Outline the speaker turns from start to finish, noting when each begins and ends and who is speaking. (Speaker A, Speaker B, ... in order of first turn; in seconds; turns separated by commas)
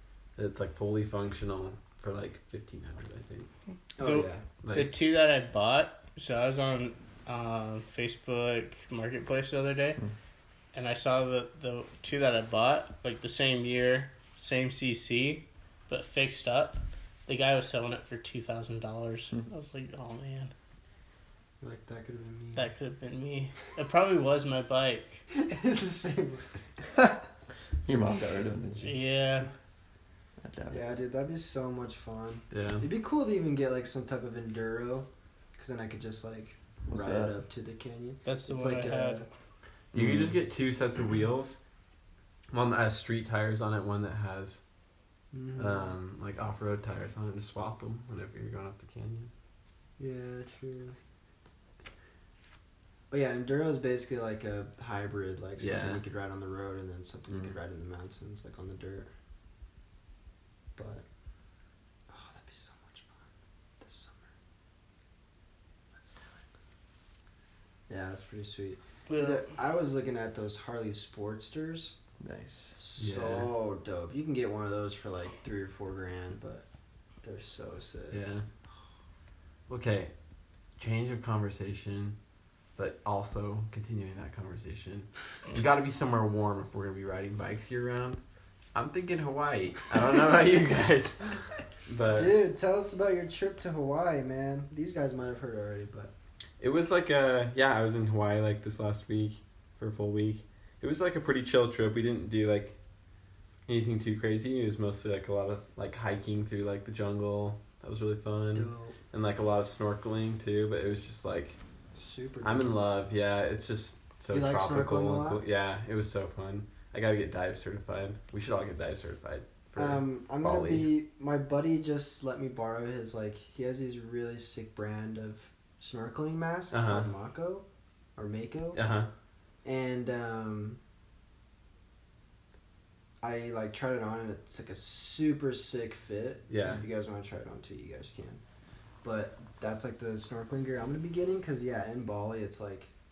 Speaker A: 0.4-3.5, Speaker B: 4.0-4.4, Speaker C: 4.0-10.0, Speaker A: 4.6-4.9, Speaker C: 10.7-20.5, Speaker B: 21.6-22.7, Speaker C: 22.6-25.2, Speaker B: 25.4-26.4, Speaker D: 27.9-28.9, Speaker C: 28.8-29.5, Speaker D: 30.4-30.8, Speaker B: 30.7-39.3, Speaker A: 32.5-32.9, Speaker D: 36.9-37.4, Speaker C: 38.3-39.3, Speaker A: 39.9-41.6, Speaker D: 39.9-40.4, Speaker A: 42.5-44.6, Speaker B: 45.3-45.9, Speaker A: 45.6-49.3, Speaker B: 50.0-51.0, Speaker B: 53.1-59.1, Speaker A: 55.6-56.0, Speaker B: 60.8-61.0, Speaker B: 62.1-63.2, Speaker B: 63.8-64.3, Speaker B: 66.0-66.2, Speaker B: 67.9-72.0, Speaker C: 69.1-69.5, Speaker D: 72.2-72.8, Speaker B: 72.7-76.7, Speaker A: 73.0-73.5, Speaker B: 77.2-78.2, Speaker A: 78.1-78.5, Speaker A: 79.7-80.1, Speaker A: 80.8-82.2, Speaker A: 82.8-88.2, Speaker A: 88.7-92.3, Speaker B: 92.1-96.1, Speaker A: 96.6-102.8, Speaker A: 103.7-111.6, Speaker B: 108.5-109.0, Speaker B: 112.0-112.8, Speaker A: 112.4-120.9, Speaker B: 114.3-115.4, Speaker B: 119.8-127.7, Speaker A: 126.7-127.1, Speaker B: 128.2-128.8, Speaker A: 128.7-129.1, Speaker B: 129.6-130.8, Speaker B: 133.2-138.4, Speaker A: 136.5-136.8, Speaker B: 139.0-142.9